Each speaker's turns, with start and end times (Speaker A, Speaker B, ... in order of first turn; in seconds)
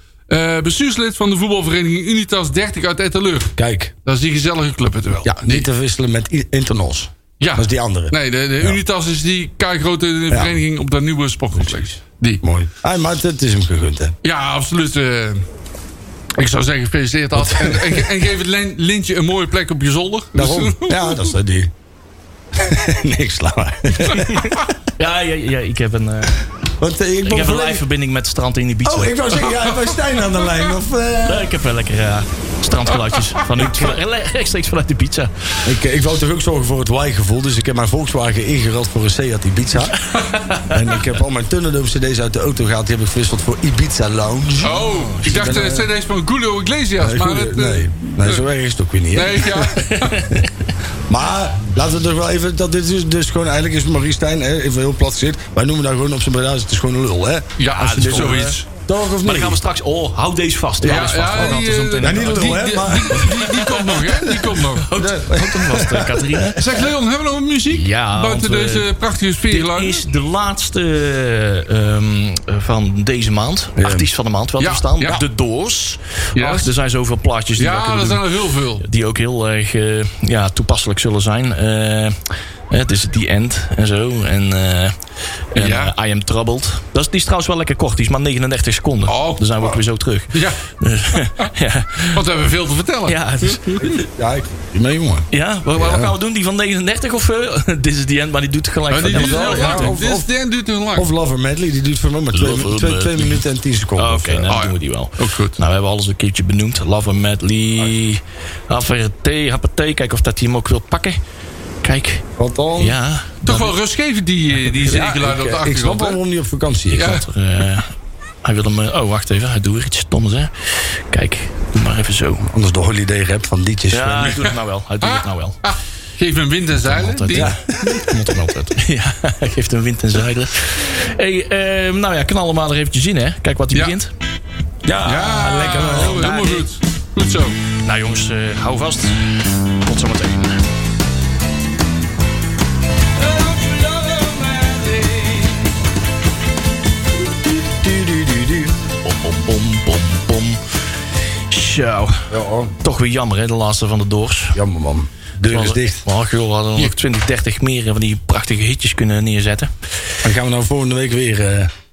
Speaker A: 0.3-3.5, 4.0-5.7, 7.4-12.4, 14.2-15.4, 16.4-21.2, 44.6-48.4, 49.1-50.3, 57.6-58.6, 60.8-64.9, 66.5-70.0, 74.6-75.2, 76.3-76.7, 77.5-78.8, 85.5-85.9, 89.1-89.8, 90.3-90.6, 91.1-91.5, 92.1-93.9, 98.9-101.1, 104.5-105.6, 113.5-116.2, 116.9-117.2, 125.0-127.5, 135.0-137.6
Speaker B: 3.5-3.9, 5.2-8.8, 10.3-10.6, 11.6-11.9, 12.4-14.2, 17.3-18.1, 20.3-21.7, 22.5-24.7, 26.8-27.8, 28.8-31.5, 33.6-33.9, 35.6-40.0, 40.7-45.9, 47.0-49.7, 51.1-59.6, 60.8-63.3, 65.0-66.6, 73.8-74.1, 93.8-96.1, 99.0-100.3, 100.9-104.5, 112.4-113.0, 114.8-117.2, 122.5-124.5, 127.3-128.0, 134.8-136.7, 147.5-148.7, 152.3-152.7, 154.5-156.0, 160.2-161.7
Speaker C: 25.0-26.4, 27.2-29.2, 31.2-35.6, 40.1-40.8, 44.8-45.3, 49.8-50.5, 57.7-58.6, 59.2-62.6, 63.1-66.6, 67.7-68.9, 69.5-78.2, 78.8-84.9, 85.5-92.2, 93.0-94.0, 95.3-99.9, 102.3-103.4, 104.0-111.2, 111.8-112.2, 112.8-113.7, 116.9-117.9, 118.4-122.5, 123.9-125.6, 126.8-134.1, 135.9-136.5, 137.8-140.6, 143.3-145.5, 149.0-150.6, 151.5-154.6, 155.5-159.7